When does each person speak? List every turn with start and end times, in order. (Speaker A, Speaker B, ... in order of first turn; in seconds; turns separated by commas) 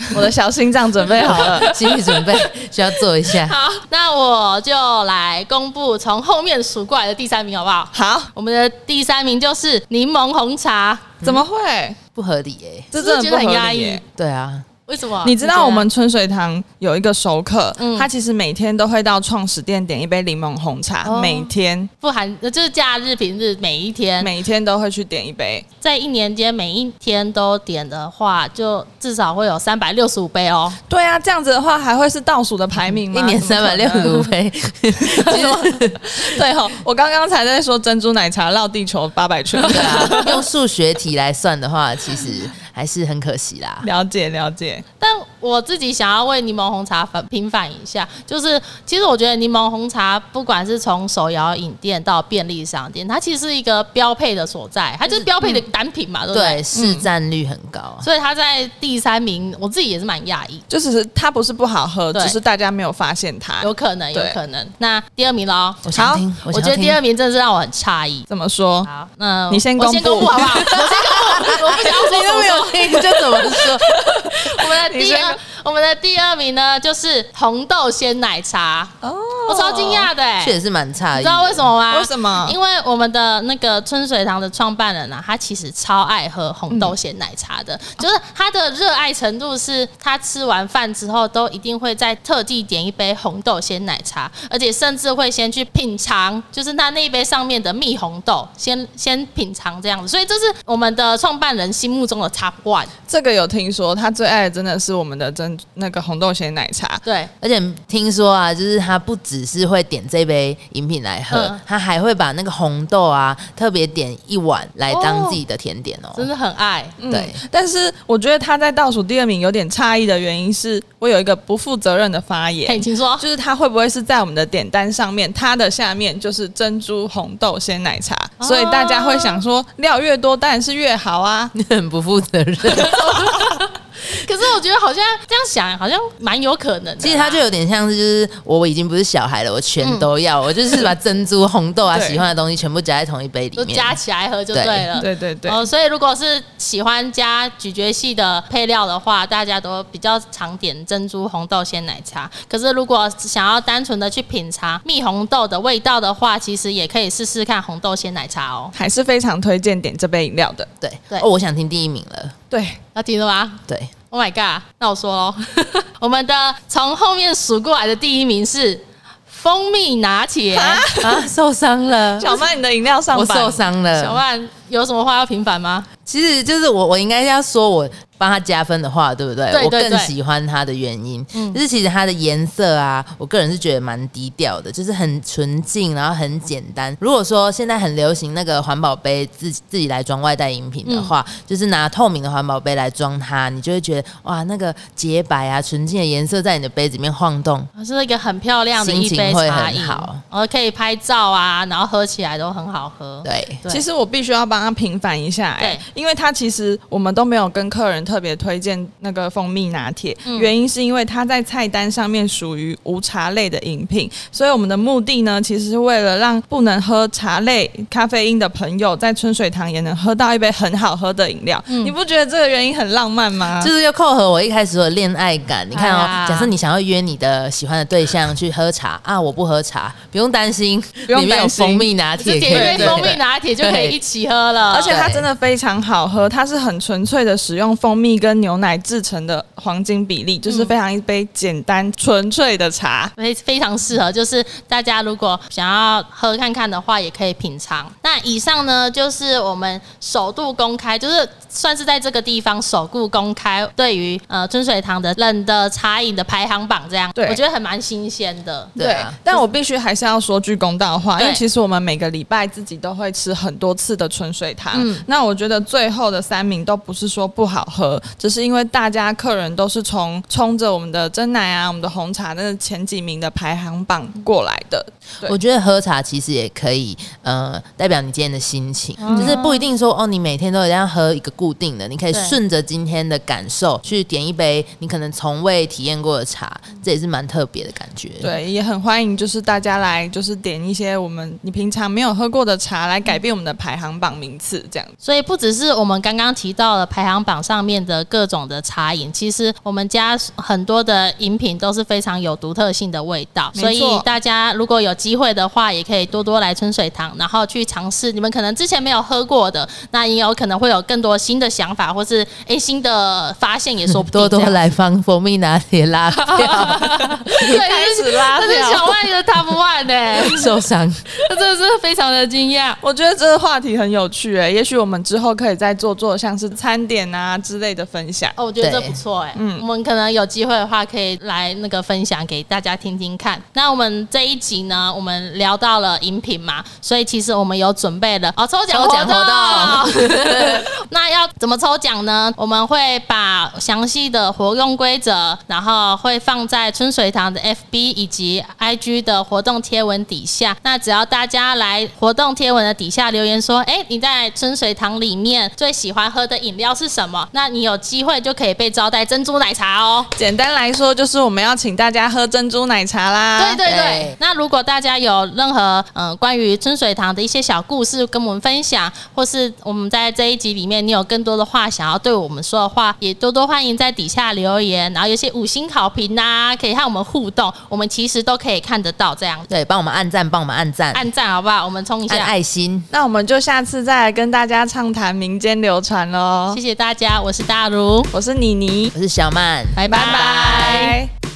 Speaker A: 0.1-1.7, Speaker B: 1.2-3.6, Speaker C: 1.5-2.5, Speaker C: 3.2-11.2, Speaker A: 7.9-8.3, Speaker A: 11.2-12.0, Speaker B: 12.2-12.9, Speaker A: 12.9-14.0, Speaker C: 13.0-14.0, Speaker B: 14.2-14.7, Speaker C: 14.9-15.9, Speaker A: 15.2-21.9, Speaker C: 17.8-18.1, Speaker C: 21.0-24.3, Speaker A: 24.2-25.6, Speaker C: 25.8-30.8, Speaker A: 30.9-34.3, Speaker B: 32.8-36.2, Speaker A: 35.2-40.4, Speaker B: 39.7-43.9, Speaker C: 39.8-40.3, Speaker A: 43.8-44.8, Speaker C: 45.0-57.1, Speaker B: 56.3-58.1, Speaker C: 58.0-60.6, Speaker A: 60.7-64.4, Speaker C: 63.6-65.8, Speaker B: 65.8-67.0, Speaker A: 66.0-66.3, Speaker C: 66.5-68.3, Speaker A: 68.3-68.9, Speaker C: 68.8-78.9, Speaker A: 69.5-70.6, Speaker B: 70.4-74.0, Speaker A: 74.8-75.4, Speaker A: 79.0-80.1, Speaker C: 79.5-80.6, Speaker B: 80.4-81.7, Speaker C: 81.2-102.9, Speaker A: 81.9-82.6, Speaker A: 86.7-87.0, Speaker A: 103.1-107.0, Speaker C: 107.0-107.3, Speaker B: 107.4-116.3, Speaker C: 111.3-111.6, Speaker C: 114.9-115.4, Speaker C: 116.2-117.0, Speaker A: 117.0-131.5, Speaker B: 117.1-117.4, Speaker C: 122.6-123.2, Speaker C: 128.4-129.4, Speaker B: 131.5-133.3, Speaker C: 132.8-137.4, Speaker B: 137.0-144.0, Speaker C: 139.8-140.1, Speaker A: 141.9-142.2, Speaker C: 143.6-158.7, Speaker B: 144.5-144.9, Speaker A: 145.0-145.6, Speaker A: 158.7-160.7, Speaker B: 160.8-162.3, Speaker A: 162.5-162.8, Speaker C: 162.9-170.9, Speaker A: 170.5-171.2, Speaker B: 171.0-172.4, Speaker A: 172.2-173.6, Speaker B: 173.1-174.2, Speaker C: 173.9-175.9, Speaker B: 176.1-197.7, Speaker C: 179.5-180.1, Speaker C: 181.3-181.6, Speaker C: 190.8-191.1, Speaker C: 197.8-203.8, Speaker B: 198.8-200.2, Speaker B: 203.2-203.6, Speaker A: 203.7-223.7, Speaker C: 205.6-205.8, Speaker C: 221.7-221.9, Speaker B: 223.6-233.9, Speaker C: 225.7-226.5, Speaker A: 231.1-231.9, Speaker C: 232.2-235.0, Speaker A: 232.5-233.2, Speaker A: 234.7-243.1, Speaker B: 234.9-235.3, Speaker C: 240.5-240.7, Speaker C: 243.2-258.7, Speaker A: 257.1-257.4, Speaker A: 258.8-275.4, Speaker B: 258.8-259.2, Speaker C: 261.1-261.4, Speaker C: 264.7-265.1, Speaker B: 275.2-288.3, Speaker A: 279.0-279.4, Speaker C: 279.0-279.6, Speaker C: 282.1-282.4, Speaker A: 288.2-294.9, Speaker C: 295.0-314.7, Speaker A: 303.6-304.1, Speaker B: 313.9-317.4, Speaker C: 316.1-320.6, Speaker A: 317.5-318.9, Speaker B: 320.2-321.1, Speaker C: 321.2-322.8, Speaker A: 322.8-328.4, Speaker C: 328.4-360.1, Speaker B: 328.6-329.0, Speaker A: 329.4-329.6, Speaker B: 338.7-340.7, Speaker A: 360.1-363.6, Speaker C: 363.4-379.5, Speaker B: 363.6-364.2, Speaker B: 379.5-381.1, Speaker C: 380.9-382.3, Speaker B: 382.1-382.9, Speaker A: 382.9-386.6, Speaker C: 386.5-388.1, Speaker A: 388.1-388.9, Speaker B: 388.9-389.9, Speaker C: 389.8-391.0, Speaker A: 389.9-391.1